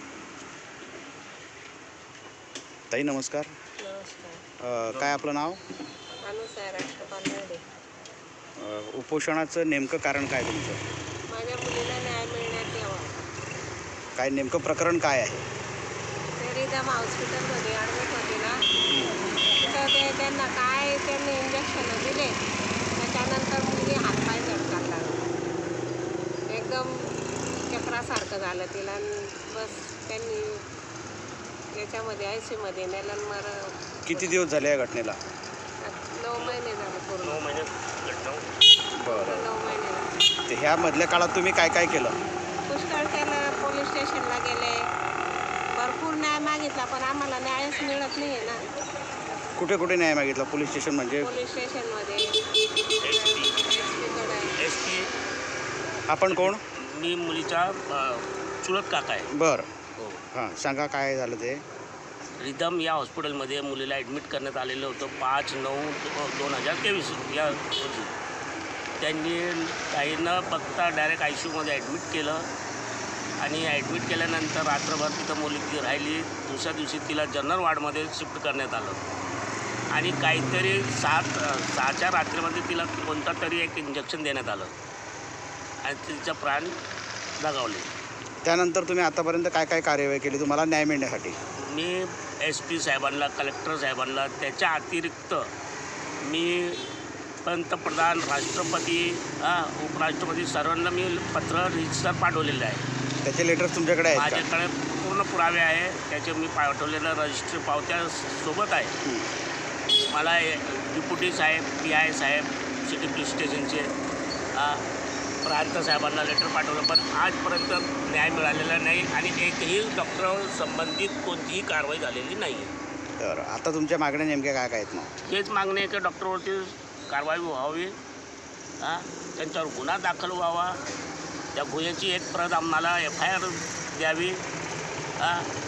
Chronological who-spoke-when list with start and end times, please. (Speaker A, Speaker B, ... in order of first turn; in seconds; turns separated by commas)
Speaker A: 2.9-3.5, Speaker B: 3.8-4.4, Speaker A: 4.6-5.6, Speaker B: 6.2-7.6, Speaker A: 8.6-10.8, Speaker B: 11.3-13.3, Speaker A: 14.1-15.4, Speaker B: 16.4-18.6, Speaker A: 18.9-19.2, Speaker B: 19.4-22.4, Speaker B: 23.0-25.3, Speaker B: 26.5-27.2, Speaker B: 27.7-30.6, Speaker B: 31.7-34.4, Speaker A: 34.1-35.2, Speaker B: 35.8-37.4, Speaker C: 37.2-38.5, Speaker A: 39.0-39.5, Speaker B: 39.0-40.1, Speaker A: 40.5-42.1, Speaker B: 42.6-44.9, Speaker B: 45.7-48.6, Speaker A: 49.5-51.3, Speaker B: 51.2-52.3, Speaker C: 53.0-53.9, Speaker B: 53.0-54.6, Speaker C: 54.5-55.1, Speaker A: 56.1-56.6, Speaker C: 56.3-59.3, Speaker A: 59.3-59.7, Speaker C: 60.0-60.2, Speaker A: 60.3-61.6, Speaker C: 62.4-68.2, Speaker C: 69.0-72.5, Speaker C: 73.4-79.0, Speaker C: 79.9-84.7, Speaker C: 85.8-86.8, Speaker C: 87.4-87.9, Speaker A: 88.4-91.4, Speaker C: 91.6-95.5, Speaker C: 96.2-96.8, Speaker C: 97.4-102.8, Speaker A: 103.2-104.5, Speaker C: 104.1-108.9, Speaker C: 110.1-113.9, Speaker C: 114.5-114.8, Speaker C: 115.4-122.7, Speaker A: 123.2-125.1, Speaker C: 125.2-128.0, Speaker C: 128.8-130.8, Speaker C: 131.5-134.4, Speaker C: 135.2-135.5